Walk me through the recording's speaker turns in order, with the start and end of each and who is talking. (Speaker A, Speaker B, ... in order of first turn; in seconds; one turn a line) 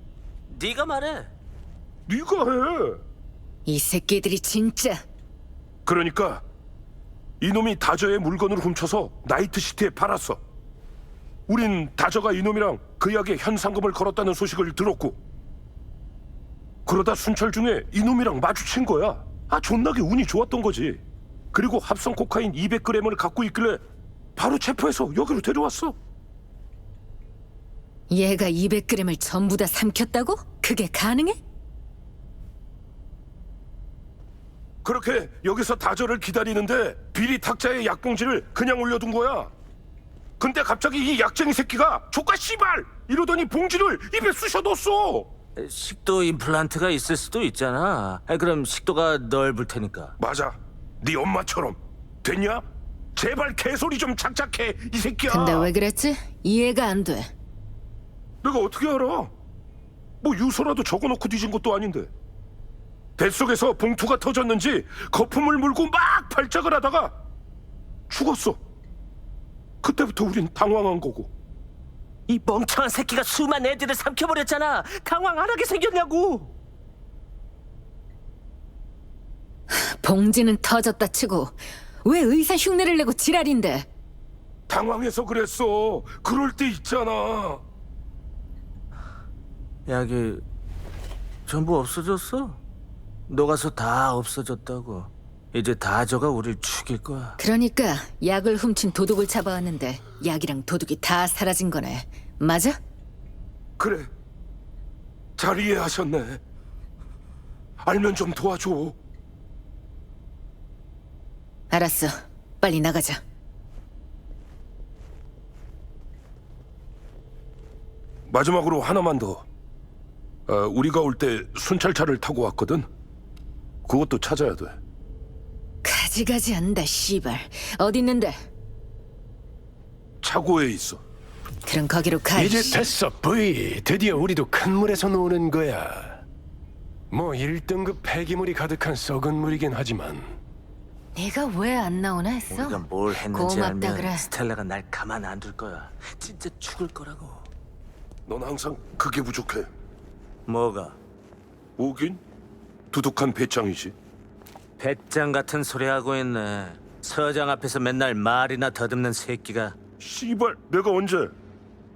Speaker A: 0.5-1.3
Speaker B: 2.1-3.0
Speaker C: 3.7-5.0
Speaker B: 5.9-6.4
Speaker B: 7.4-10.4
Speaker B: 11.5-15.2
Speaker B: 16.9-21.0
Speaker B: 21.5-23.8
Speaker B: 24.4-25.9
Speaker C: 28.1-31.4
Speaker B: 34.8-39.5
Speaker B: 40.4-45.3
Speaker A: 45.6-50.1
Speaker B: 50.2-52.6
Speaker B: 53.2-55.7
Speaker C: 55.3-57.3
Speaker B: 58.4-59.3
Speaker B: 60.2-62.1
Speaker B: 63.2-67.2
Speaker B: 68.1-68.6
Speaker B: 69.8-71.3
Speaker A: 72.3-76.5
Speaker C: 79.7-83.9
Speaker B: 84.7-87.6
Speaker A: 89.9-90.4
Speaker A: 91.5-92.6
Speaker A: 93.3-97.4
Speaker C: 97.4-102.8
Speaker B: 103.8-104.1
Speaker B: 105.4-106.4
Speaker B: 107.8-109.0
Speaker C: 111.7-113.2
Speaker B: 118.3-119.4
Speaker B: 120.5-122.9
Speaker B: 123.8-124.8
Speaker C: 125.8-128.5
Speaker B: 130.2-131.0
Speaker C: 131.7-132.8
Speaker D: 132.4-136.2
Speaker D: 137.1-140.3
Speaker C: 141.2-144.3
Speaker A: 142.5-147.5
Speaker B: 148.3-149.7
Speaker A: 150.5-151.0
Speaker B: 151.8-152.2
Speaker B: 152.9-153.9
Speaker A: 154.8-159.8
Speaker B: 160.0-161.3